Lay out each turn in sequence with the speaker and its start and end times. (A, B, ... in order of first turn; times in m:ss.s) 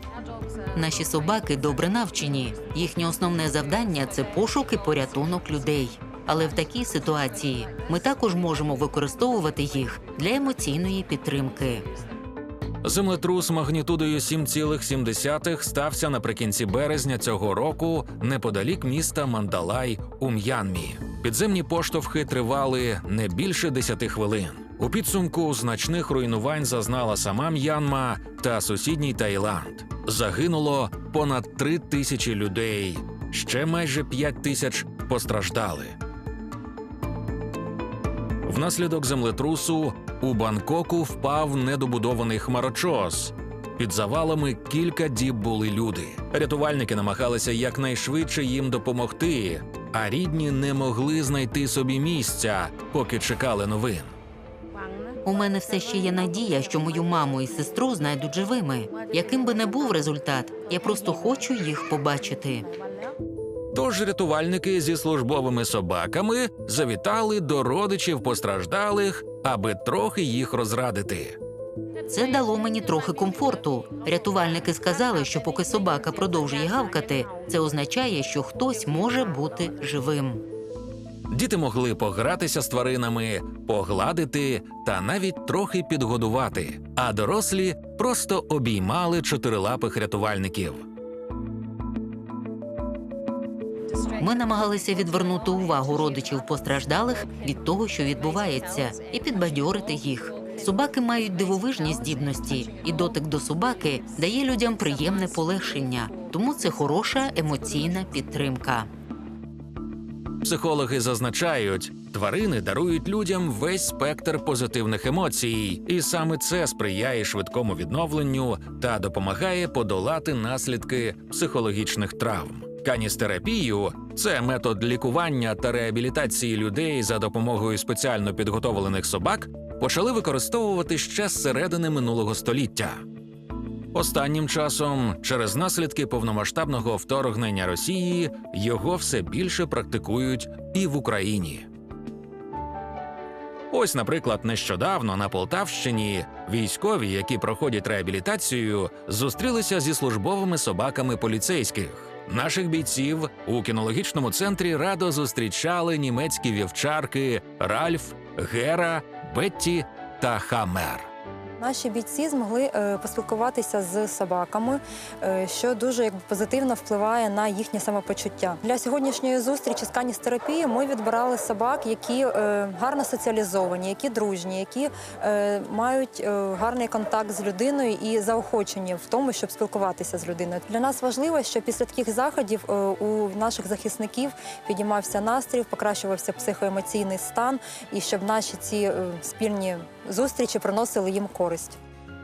0:00.7-0:11.9 A
0:12.8-0:36.0 B
0:38.5-0:54.1 B
0:55.2-1:02.7 A
1:03.7-1:11.4 B
1:12.1-1:20.4 A
1:21.3-1:30.8 B
1:34.2-1:48.9 A
1:50.4-2:13.0 B
2:13.9-2:21.7 B
2:23.7-2:41.1 B
2:41.6-3:11.8 C